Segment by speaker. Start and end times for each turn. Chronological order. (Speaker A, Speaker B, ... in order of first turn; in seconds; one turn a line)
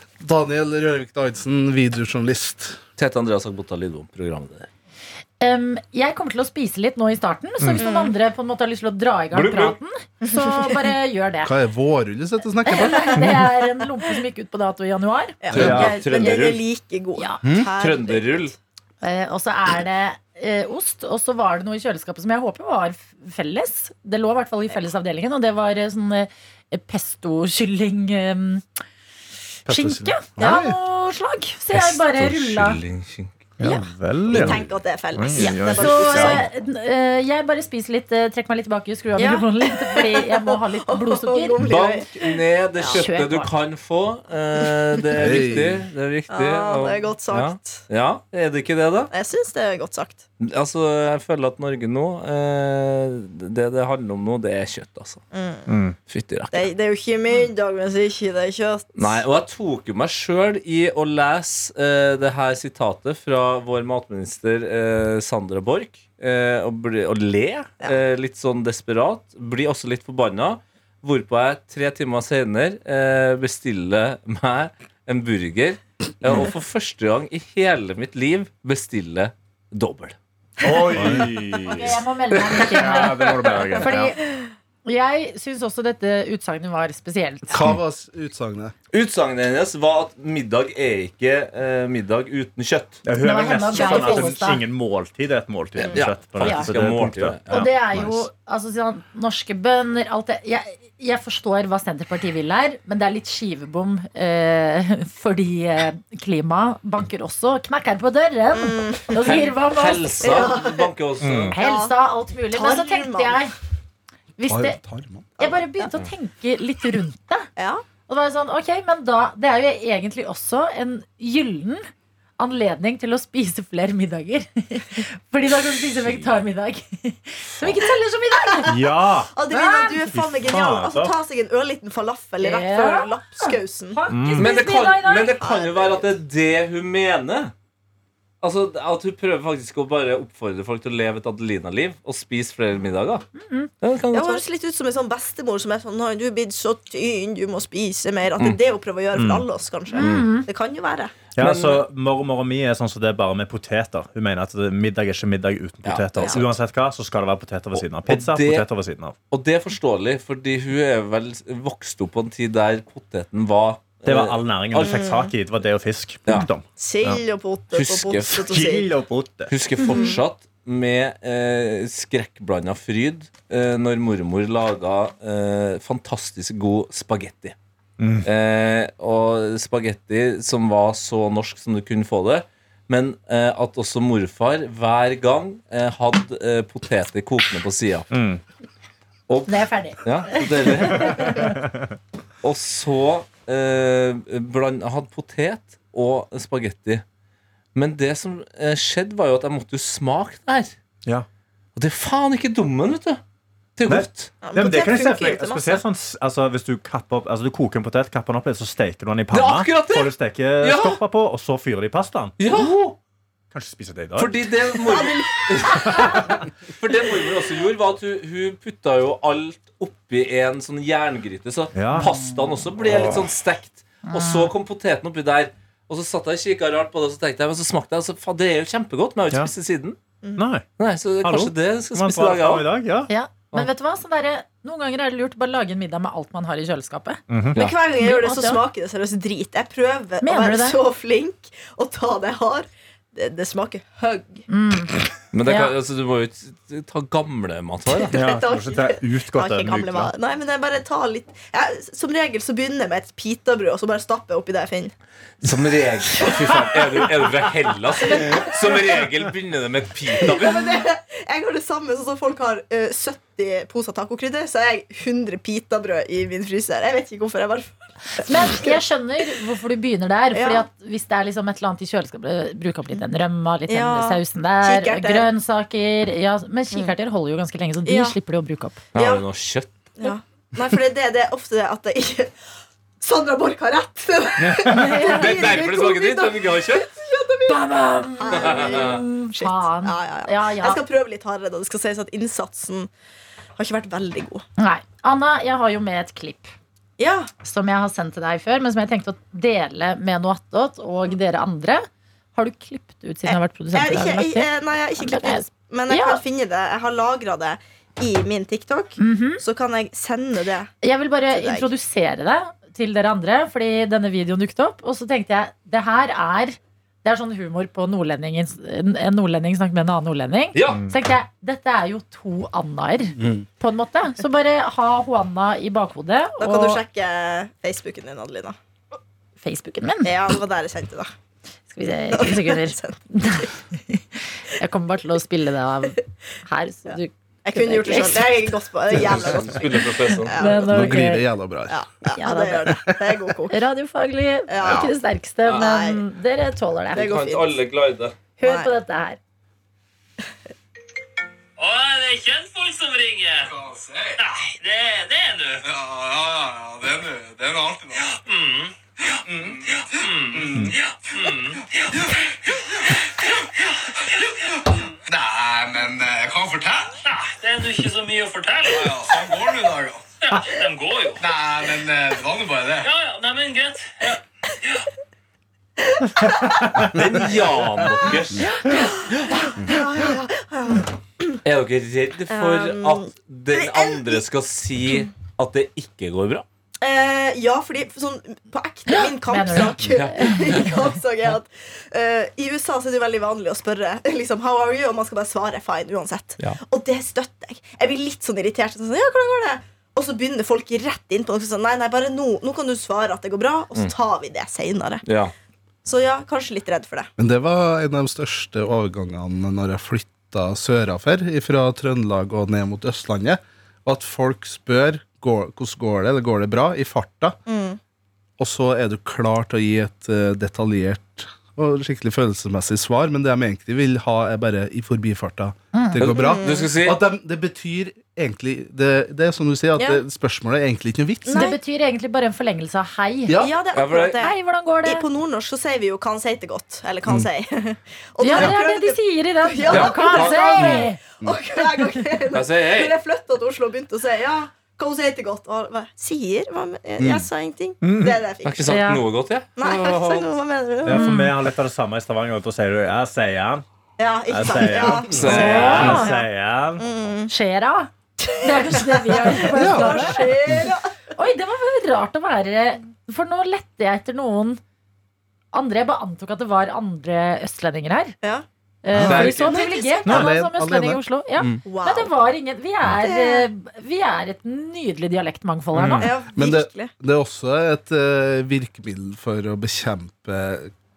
Speaker A: 0.2-2.8
Speaker B: 3.0-4.7
Speaker C: 5.4-11.5
Speaker D: 7.8-8.2
Speaker B: 9.3-9.8
Speaker D: 10.2-10.9
Speaker A: 11.4-13.4
Speaker C: 12.7-15.4
Speaker D: 15.4-18.5
Speaker A: 15.5-15.9
Speaker E: 15.6-15.9
Speaker B: 15.6-16.6
Speaker C: 17.2-17.4
Speaker A: 17.4-17.7
Speaker B: 17.8-18.5
Speaker C: 19.0-28.6
Speaker C: 29.7-32.8
Speaker E: 29.7-30.1
Speaker A: 30.4-30.8
Speaker B: 31.7-33.5
Speaker E: 33.6-36.4
Speaker D: 33.6-36.5
Speaker C: 35.4-41.6
Speaker D: 39.2-42.2
Speaker B: 41.6-49.1
Speaker C: 42.9-43.5
Speaker A: 45.1-45.9
Speaker D: 46.3-47.8
Speaker D: 49.1-50.2
Speaker B: 50.4-55.2
Speaker D: 55.3-55.7
Speaker E: 55.7-56.0
Speaker B: 56.1-56.7
Speaker D: 56.5-59.2
Speaker B: 59.0-80.2
Speaker E: 80.6-82.0
Speaker D: 80.7-81.2
Speaker A: 81.0-81.3
Speaker C: 81.7-84.2
Speaker E: 82.5-84.2
Speaker C: 84.8-87.7
Speaker A: 87.5-88.7
Speaker B: 88.9-93.0
Speaker E: 93.0-98.1
Speaker C: 93.2-94.6
Speaker D: 93.8-94.2
Speaker B: 95.9-97.7
Speaker C: 96.4-96.7
Speaker C: 97.5-110.2
Speaker D: 108.5-109.5
Speaker B: 109.2-111.5
Speaker D: 110.2-110.9
Speaker E: 111.2-111.6
Speaker D: 111.5-112.0
Speaker C: 111.5-113.5
Speaker D: 112.5-113.4
Speaker C: 114.4-114.8
Speaker A: 114.5-115.4
Speaker C: 115.4-117.5
Speaker D: 115.4-115.7
Speaker D: 117.6-117.8
Speaker C: 118.1-121.9
Speaker C: 122.4-128.8
Speaker D: 128.6-134.0
Speaker E: 128.7-129.3
Speaker C: 129.5-130.0
Speaker E: 130.1-131.2
Speaker C: 132.4-135.4
Speaker E: 134.1-134.5
Speaker B: 134.4-137.5
Speaker D: 135.3-136.1
Speaker B: 138.4-143.2
Speaker C: 143.4-143.7
Speaker B: 143.8-144.4
Speaker D: 144.1-151.2
Speaker E: 149.2-149.5
Speaker C: 149.9-150.5
Speaker E: 151.4-159.2
Speaker B: 151.4-151.8
Speaker B: 155.8-156.5
Speaker D: 156.2-156.4
Speaker B: 157.7-158.7
Speaker B: 159.3-165.0
Speaker E: 164.1-166.7
Speaker D: 164.8-165.3
Speaker D: 166.8-168.9
Speaker B: 167.0-168.5
Speaker E: 168.5-169.5
Speaker B: 169.5-177.6
Speaker C: 169.8-170.1
Speaker D: 169.9-170.2
Speaker E: 178.0-178.3
Speaker B: 178.2-188.1
Speaker E: 188.1-188.4
Speaker B: 189.3-191.4
Speaker C: 189.5-191.6
Speaker E: 190.9-191.8
Speaker B: 192.4-197.0
Speaker B: 197.8-200.8
Speaker B: 201.8-203.2
Speaker B: 203.8-204.4
Speaker E: 203.9-212.3
Speaker D: 204.4-205.8
Speaker B: 209.3-210.1
Speaker B: 210.6-211.0
Speaker B: 212.4-213.0
Speaker E: 213.5-214.4
Speaker B: 214.2-230.0
Speaker D: 214.9-216.2
Speaker E: 215.7-216.4
Speaker E: 221.7-222.2
Speaker E: 222.8-223.2
Speaker C: 224.1-224.5
Speaker E: 230.4-230.6
Speaker B: 230.8-232.7
Speaker E: 231.2-233.1
Speaker C: 233.1-237.2
Speaker E: 237.3-237.6
Speaker D: 237.6-244.5
Speaker C: 238.0-238.6
Speaker C: 240.2-240.8
Speaker C: 244.5-245.7
Speaker B: 245.3-248.1
Speaker D: 247.9-254.9
Speaker E: 248.1-250.1
Speaker B: 255.4-260.8
Speaker D: 256.2-257.0
Speaker D: 258.1-258.5
Speaker D: 260.2-268.8
Speaker C: 268.2-278.8
Speaker D: 270.3-270.7
Speaker D: 273.7-275.3
Speaker D: 277.9-278.2
Speaker B: 278.9-279.7
Speaker D: 278.9-279.2
Speaker D: 280.0-282.3
Speaker D: 283.0-292.9
Speaker C: 284.7-285.4
Speaker B: 284.8-286.9
Speaker C: 287.5-290.8
Speaker B: 288.3-289.0
Speaker D: 293.6-294.4
Speaker C: 294.6-296.5
Speaker D: 297.0-297.3
Speaker C: 297.4-301.8
Speaker C: 302.4-306.2
Speaker D: 303.3-310.7
Speaker C: 309.0-309.4
Speaker C: 310.8-326.8
Speaker D: 311.3-311.7
Speaker B: 320.5-320.8
Speaker A: 323.2-323.4
Speaker D: 326.4-328.6
Speaker C: 329.4-330.1
Speaker D: 330.0-331.1
Speaker C: 331.7-338.4
Speaker D: 332.1-333.5
Speaker D: 337.5-341.1
Speaker B: 339.0-340.4
Speaker C: 340.3-341.3
Speaker A: 340.6-341.8
Speaker D: 341.7-343.6
Speaker C: 342.2-342.8
Speaker C: 343.5-347.1
Speaker D: 344.5-344.9
Speaker D: 345.5-346.0
Speaker D: 346.9-347.5
Speaker B: 347.0-348.2
Speaker C: 348.4-349.2
Speaker D: 348.4-348.7
Speaker F: 351.6-353.5
Speaker G: 353.5-354.2
Speaker F: 354.2-355.6
Speaker G: 355.6-358.1
Speaker F: 358.1-358.7
Speaker F: 359.2-362.2
Speaker G: 359.3-360.8
Speaker G: 361.9-362.2
Speaker F: 362.9-363.3
Speaker G: 364.7-367.0
Speaker F: 367.1-369.5
Speaker G: 368.7-370.0
Speaker F: 370.2-371.2
Speaker G: 371.2-372.9
Speaker F: 372.8-374.2
Speaker E: 376.2-376.9
Speaker B: 376.9-378.6
Speaker D: 378.7-381.4
Speaker B: 381.4-386.5
Speaker D: 382.3-384.2
Speaker D: 384.8-385.1
Speaker D: 386.8-405.0
Speaker C: 388.9-390.7
Speaker B: 389.8-390.7
Speaker B: 405.1-405.3
Speaker D: 405.9-407.1
Speaker A: 407.2-417.4
Speaker D: 417.5-417.8
Speaker A: 418.4-431.5
Speaker C: 425.7-426.0
Speaker B: 426.0-427.0
Speaker D: 426.1-426.7
Speaker D: 429.8-430.0
Speaker D: 431.2-431.6
Speaker C: 431.3-433.4
Speaker A: 433.3-433.5
Speaker D: 433.4-448.8
Speaker B: 433.7-434.2
Speaker C: 434.2-435.1
Speaker C: 438.2-441.0
Speaker B: 439.7-440.5
Speaker B: 442.3-443.0
Speaker A: 447.0-447.3
Speaker E: 447.8-448.2
Speaker B: 448.4-450.3
Speaker C: 448.7-449.0
Speaker D: 449.6-451.2
Speaker E: 450.9-453.6
Speaker C: 450.9-451.3
Speaker D: 454.0-457.3
Speaker E: 454.3-456.9
Speaker A: 454.8-455.2
Speaker B: 455.1-456.0
Speaker C: 455.2-456.1
Speaker C: 457.3-460.4
Speaker D: 458.2-460.9
Speaker A: 459.5-460.7
Speaker C: 461.2-464.6
Speaker C: 465.5-468.2
Speaker C: 468.8-476.1
Speaker B: 469.0-469.6
Speaker D: 469.0-470.2
Speaker A: 470.1-471.6
Speaker D: 471.7-472.1
Speaker D: 473.0-473.5
Speaker E: 475.7-476.1
Speaker D: 476.0-476.9
Speaker A: 476.3-480.7